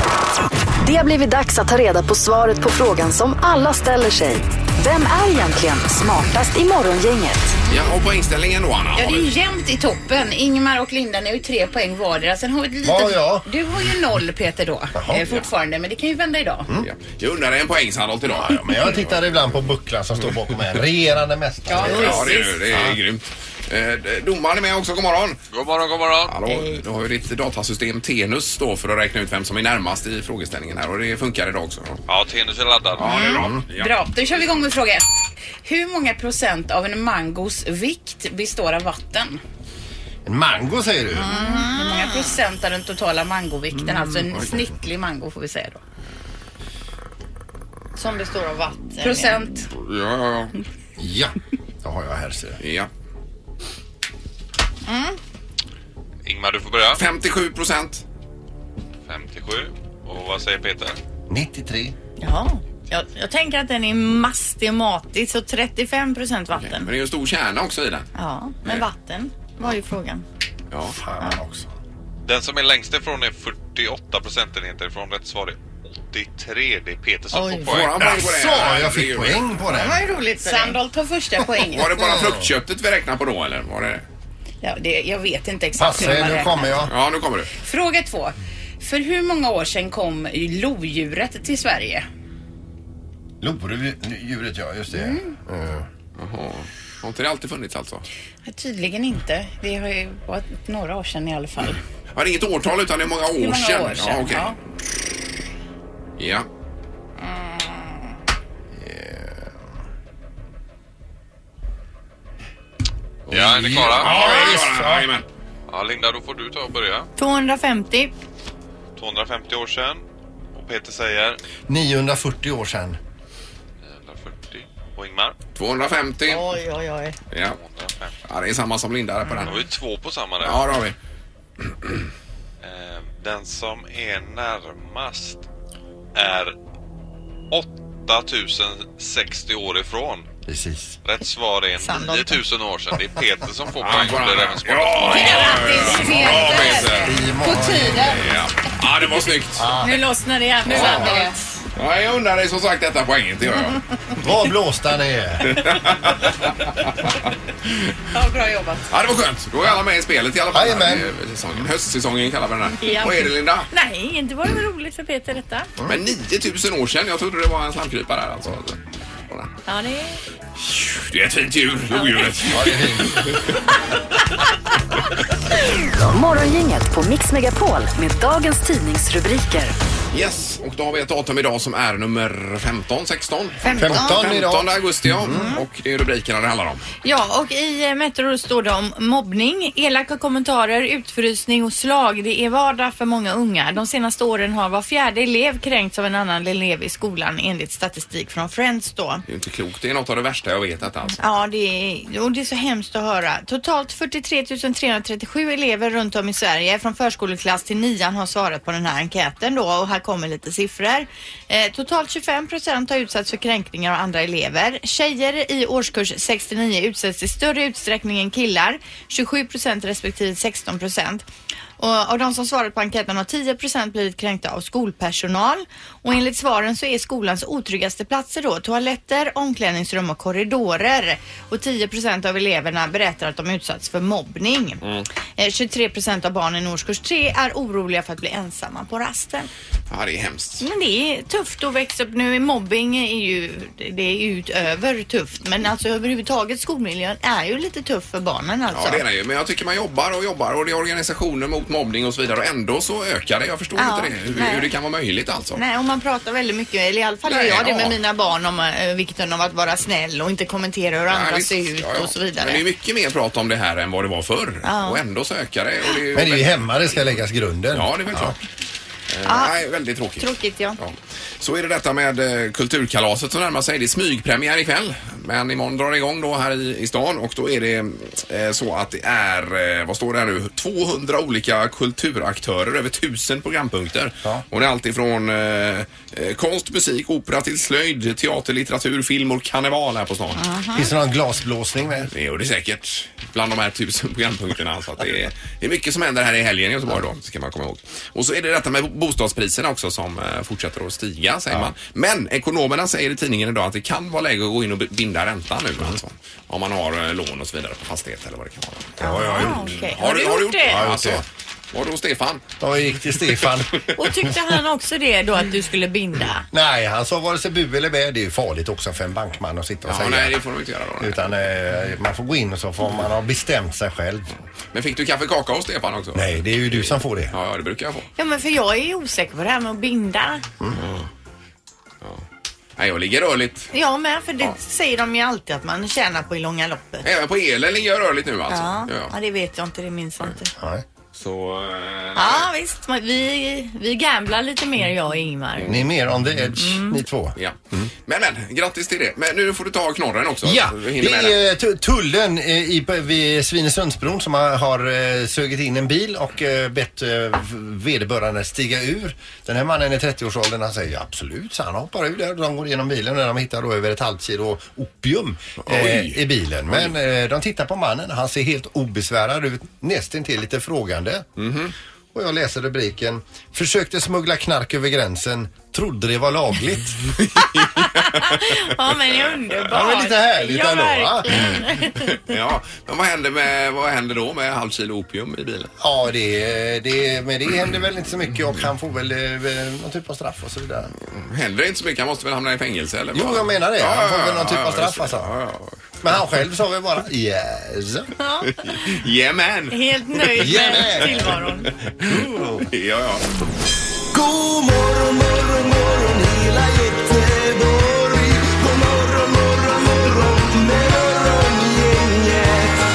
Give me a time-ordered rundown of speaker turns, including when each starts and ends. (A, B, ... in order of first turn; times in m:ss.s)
0:00.8-0:07.6 A
0:07.7-0:09.3 B
0:08.9-0:16.8 C
0:12.8-0:13.5 D
0:14.9-0:15.2 D
0:16.8-0:19.2 B
0:18.3-0:22.2 D
0:21.7-0:22.2 C
0:21.7-0:22.6 E
0:21.9-0:25.4 B
0:22.7-0:23.0 D
0:25.5-0:26.4 F
0:26.2-0:32.0 B
0:32.1-0:33.4 F
0:33.0-0:34.0 B
0:33.3-0:33.6 D
0:33.7-0:39.4 C
0:40.2-0:41.3 D
0:41.2-0:42.3 E
0:41.2-0:45.8 C
0:48.0-0:49.5 E
0:49.0-0:49.7 C
0:49.7-0:50.5 B
0:51.0-0:52.6 D
0:52.6-0:52.9 B
0:54.8-0:55.2 E
0:56.2-0:57.0 F
0:56.9-0:58.0 B
0:59.1-1:01.0 F
1:01.3-1:01.9 D
1:02.2-1:06.9 E
1:06.6-1:08.1 B
1:08.2-1:10.2 E
1:10.7-1:11.0 B
1:10.9-1:11.7 D
1:12.2-1:18.2 F
1:17.3-1:17.8 E
1:17.6-1:19.6 B
1:17.9-1:20.0 D
1:19.7-1:20.8 E
1:20.3-1:22.1 C
1:21.6-1:24.0 B
1:22.0-1:22.5 D
1:24.6-1:26.8 C
1:25.8-1:26.9 D
1:26.9-1:27.5 B
1:27.6-1:32.1 C
1:33.4-1:35.9 D
1:34.9-1:35.4 C
1:36.2-1:38.0 B
1:38.4-1:41.8 C
1:42.1-1:44.5 B
1:43.4-1:44.6 C
1:46.2-1:46.5 B
1:48.7-1:49.5 D
1:53.3-1:55.2 B
1:53.3-1:54.1 F
1:53.9-1:55.1 D
1:54.0-1:54.6 E
1:55.7-1:57.1 F
1:57.2-1:58.1 E
1:59.0-2:01.4 F
2:01.7-2:03.0 D
2:03.8-2:05.4 F
2:05.6-2:06.5 B
2:06.2-2:07.2 E
2:07.3-2:07.6 B
2:07.4-2:08.1 F
2:08.2-2:09.6 B
2:09.2-2:09.6 E
2:09.4-2:10.8 F
2:10.4-2:11.0 B
2:11.6-2:12.1 B
2:12.6-2:15.5 F
2:16.1-2:16.6 F
2:17.5-2:20.3 F
2:20.4-2:21.0 D
2:21.0-2:25.8 F
2:21.8-2:22.4 E
2:23.8-2:27.2 B
2:25.1-2:28.2 E
2:25.1-2:26.9 C
2:27.0-2:28.3 D
2:28.0-2:29.7 B
2:29.6-2:30.0 D
2:29.8-2:31.4 E
2:30.6-2:31.2 B
2:30.8-2:31.4 C
2:31.8-2:33.8 B
2:34.2-2:35.8 D
2:35.5-2:37.3 B
2:38.1-2:38.9 E
2:38.9-2:43.7 B
2:40.5-2:41.1 D
2:42.8-2:45.7 E
2:45.9-2:48.8 B
2:49.7-2:50.2 E
2:50.6-2:53.4 B
2:51.9-2:52.5 E
2:52.4-2:53.4 D
2:56.0-2:59.7 A
3:00.1-3:06.9 B
3:03.6-3:04.2 E
3:03.7-3:05.4 D
3:05.3-3:05.6 E
3:07.0-3:19.2 E
3:19.3-3:21.2 B
3:21.2-3:41.2 E
3:41.8-3:54.8 E
3:54.8-3:55.1 B
3:55.4-3:59.5 E
3:59.9-4:00.6 B
4:00.6-4:09.0 E
4:08.7-4:15.6 B
4:13.8-4:14.7 E
4:15.5-4:22.6 E
4:17.2-4:18.0 B
4:21.1-4:27.2 B
4:24.6-4:25.0 E
4:26.1-4:28.4 D
4:27.7-4:28.4 B
4:29.1-4:50.4 B
4:29.2-4:29.5 E
4:30.2-4:30.8 E
4:50.3-4:50.9 E
4:50.7-4:52.1 D
4:52.1-5:12.4 B
5:09.0-5:09.7 D
5:09.0-5:10.8 E
5:10.7-5:11.2 D
5:12.6-5:14.0 D
5:13.2-5:13.6 B
5:14.0-5:16.4 E
5:16.5-5:20.4 D
5:19.8-5:21.2 B
5:21.0-5:24.3 D
5:24.7-5:28.1 B
5:26.1-5:27.3 D
5:28.2-5:30.4 E
5:30.7-5:31.1 B
5:32.8-5:33.7 B
5:33.7-5:37.0 E
5:37.0-5:39.1 B
5:38.5-5:40.5 E
5:40.6-5:40.8 D
5:41.1-5:42.5 B
5:42.1-5:45.7 E
5:45.6-5:47.9 D
5:46.6-5:47.0 E
5:47.4-5:51.4 B
5:50.4-6:11.3 D
6:05.6-6:06.9 B
6:11.4-6:11.7 B
6:12.1-6:17.1 D
6:17.4-6:18.3 B
6:17.6-6:22.1 E
6:19.7-6:21.6 D
6:21.9-6:25.7 B
6:25.8-6:30.9 D
6:31.0-6:36.2 B
6:33.1-6:35.3 D
6:36.0-6:38.1 D
6:38.2-6:38.6 E
6:38.5-6:43.3 B
6:39.7-6:41.7 E
6:40.4-6:41.4 D
6:42.1-6:42.6 D
6:44.1-6:52.8 G